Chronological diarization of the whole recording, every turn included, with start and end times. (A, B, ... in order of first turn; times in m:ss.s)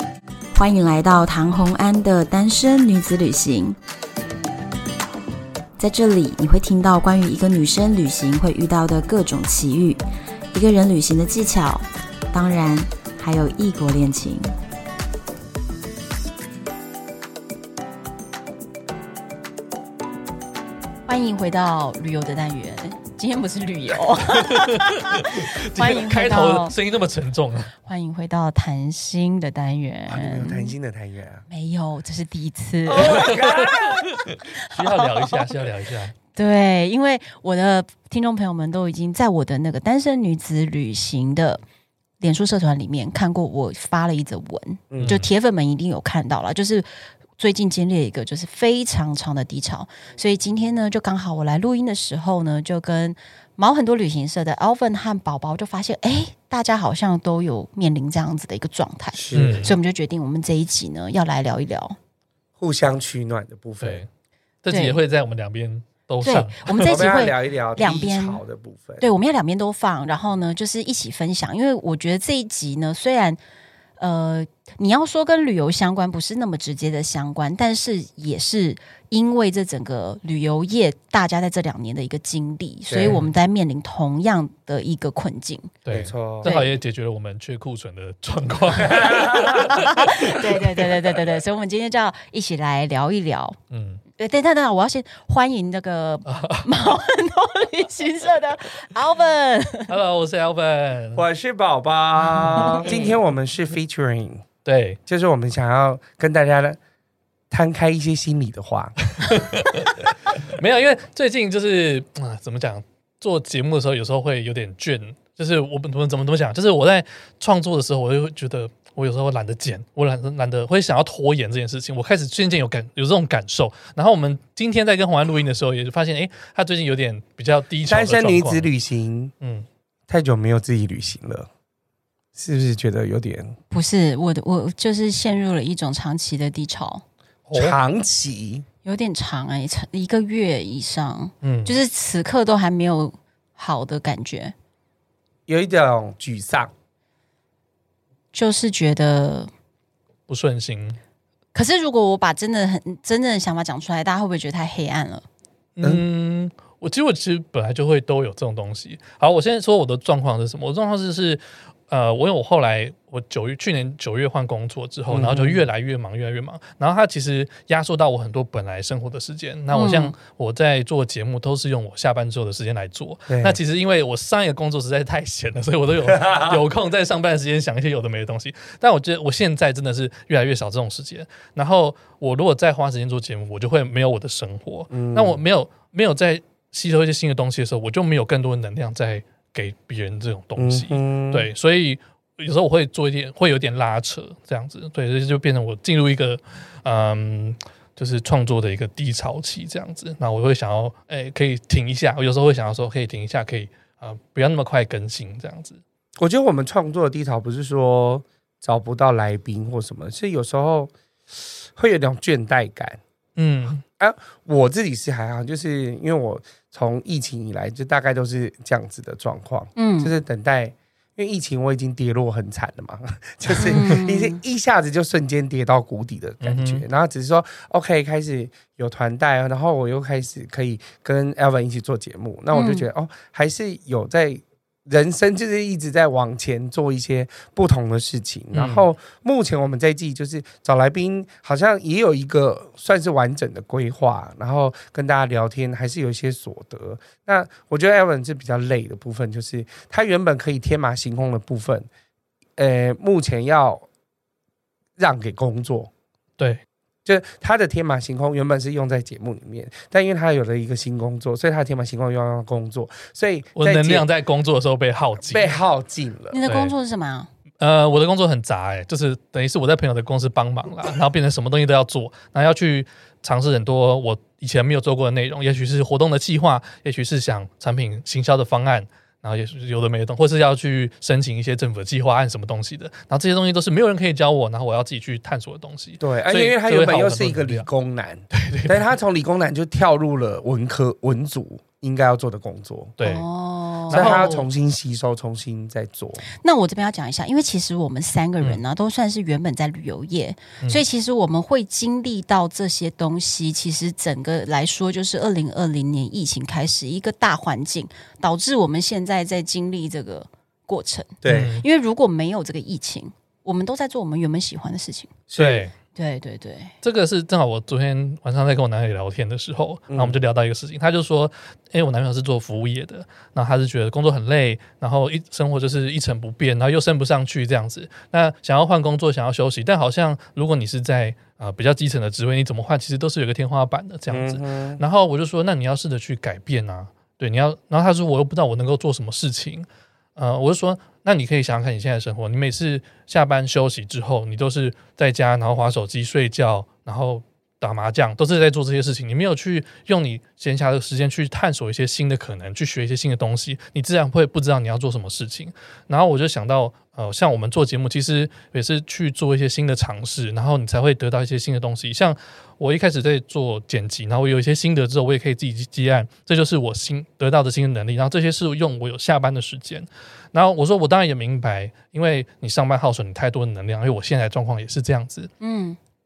0:00.6-0:03.8 A
0:05.8-0:14.5 A
0:21.1-0:26.8 A
0:24.4-0:27.7 B
0:27.8-0:30.8 A
0:30.1-0:31.4 C
0:31.5-0:35.5 A
0:32.9-0:34.1 C
0:33.1-0:36.2 B
0:36.3-0:41.6 A
0:42.2-0:46.9 A
0:44.9-0:45.2 C
0:45.0-0:45.3 B
0:47.4-1:02.0 A
0:59.1-0:59.7 C
0:59.3-0:59.8 B
1:02.6-1:04.0 C
1:03.8-1:04.1 B
1:04.6-1:07.2 B
1:04.7-1:05.0 A
1:06.2-1:08.4 A
1:06.8-1:09.0 C
1:09.0-1:13.4 A
1:14.0-1:25.8 A
1:22.9-1:23.2 C
1:23.0-1:23.3 B
1:25.8-1:30.1 B
1:25.9-1:26.5 C
1:26.4-1:26.8 A
1:28.7-1:29.8 C
1:29.0-1:33.6 A
1:33.7-1:34.0 B
1:34.2-1:39.9 A
1:36.3-1:36.7 B
1:39.9-1:41.2 B
1:41.1-1:44.4 C
1:42.3-1:42.9 B
1:42.6-1:43.2 A
1:44.6-1:45.0 B
1:45.1-1:46.8 C
1:47.5-1:49.0 C
1:49.2-2:08.7 B
2:07.9-2:09.3 C
2:09.4-2:09.7 B
2:10.1-2:11.5 C
2:12.3-2:13.6 C
2:13.7-2:17.0 A
2:17.5-2:17.8 B
2:17.5-2:18.7 C
2:18.8-2:24.5 A
2:21.4-2:21.8 B
2:25.5-2:26.7 C
2:28.3-2:29.5 A
2:30.3-2:31.0 B
2:31.5-2:35.2 A
2:35.8-3:25.8 B
2:45.1-2:45.6 C
2:49.7-2:50.2 A
2:53.3-2:53.6 C
2:56.2-2:56.6 C
3:04.9-3:05.4 C
3:10.6-3:11.5 C
3:26.2-3:33.0 C
3:33.4-3:33.8 B
3:34.0-4:11.9 C
3:39.8-3:40.1 A
3:43.6-3:44.4 A
3:46.4-3:46.8 B
3:52.5-3:52.9 A
3:58.5-3:58.8 B
4:12.6-4:13.9 C
4:15.0-4:15.9 C
4:17.0-4:24.1 C
4:23.6-4:25.6 B
4:25.2-4:26.4 C
4:26.3-4:27.3 A
4:26.5-4:26.7 B
4:27.6-4:47.7 B
4:46.0-4:53.0 C
4:48.3-4:48.9 B
4:53.0-4:53.3 B
4:53.0-4:54.2 A
4:53.9-4:54.5 B
4:53.9-4:56.2 C
4:56.4-5:15.1 A
5:11.2-5:11.6 C
5:11.3-5:11.6 B
5:15.3-5:15.7 C
5:15.4-5:15.7 B
5:16.0-5:16.7 A
5:16.8-6:15.3 B
5:19.9-5:20.2 C
5:34.1-5:34.8 C
6:15.4-6:15.8 A